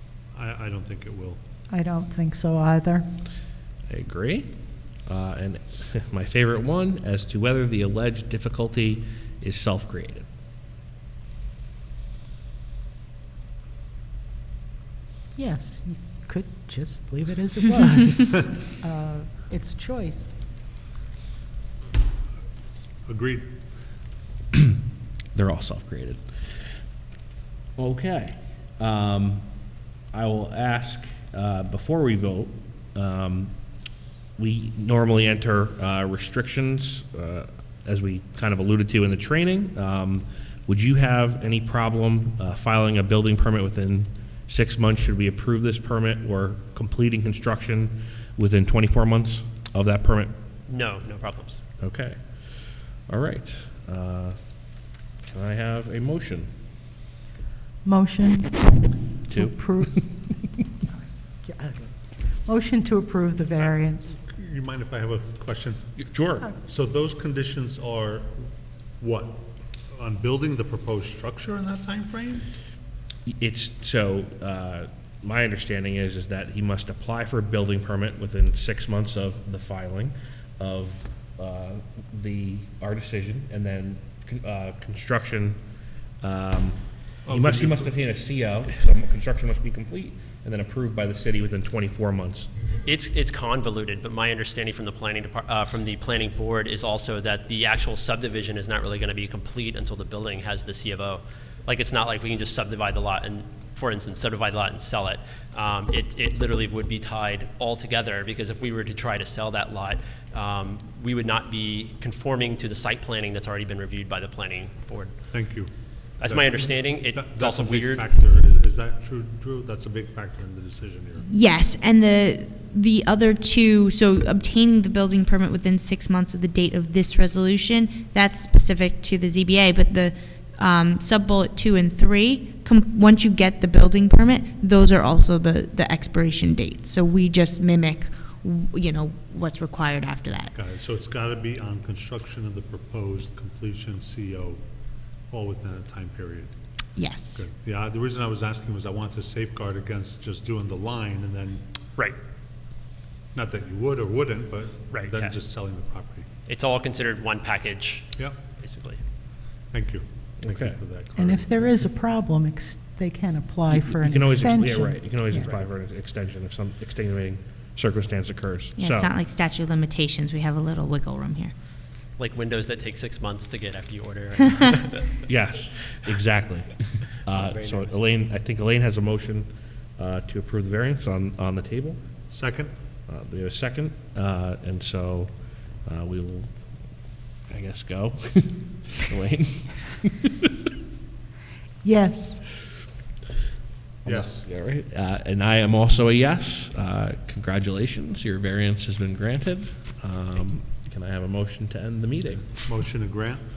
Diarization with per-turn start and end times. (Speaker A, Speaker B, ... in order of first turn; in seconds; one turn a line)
Speaker A: 0.3-1.4
Speaker B: 1.7-3.1
Speaker C: 3.9-4.5
Speaker C: 5.0-10.3
Speaker B: 15.3-20.4
Speaker A: 23.1-23.5
Speaker C: 25.3-26.2
Speaker C: 27.8-29.5
Speaker C: 30.1-33.5
Speaker C: 34.4-50.3
Speaker D: 50.7-51.6
Speaker C: 51.8-52.2
Speaker C: 53.1-54.4
Speaker C: 55.2-56.5
Speaker B: 57.8-60.3
Speaker C: 59.3-60.0
Speaker B: 61.4-64.2
Speaker A: 64.1-65.9
Speaker C: 66.0-66.5
Speaker A: 66.6-68.5
Speaker A: 69.0-72.4
Speaker C: 73.3-85.6
Speaker C: 86.2-92.5
Speaker A: 87.2-87.9
Speaker D: 92.8-115.1
Speaker A: 115.3-121.2
Speaker D: 116.2-118.0
Speaker E: 121.3-140.5
Speaker A: 140.5-144.6
Speaker A: 145.3-146.5
Speaker E: 146.9-147.5
Speaker A: 147.3-151.6
Speaker A: 153.3-156.3
Speaker D: 154.9-155.3
Speaker D: 156.5-159.0
Speaker A: 159.7-161.8
Speaker C: 160.4-160.8
Speaker B: 161.2-165.5
Speaker C: 163.7-169.1
Speaker E: 168.8-171.5
Speaker D: 172.2-175.2
Speaker C: 175.2-182.0
Speaker D: 177.3-178.1
Speaker A: 182.3-182.7
Speaker C: 183.1-186.5
Speaker C: 187.5-190.5
Speaker B: 191.8-192.5
Speaker A: 194.0-194.4
Speaker C: 194.0-202.5
Speaker A: 202.6-203.4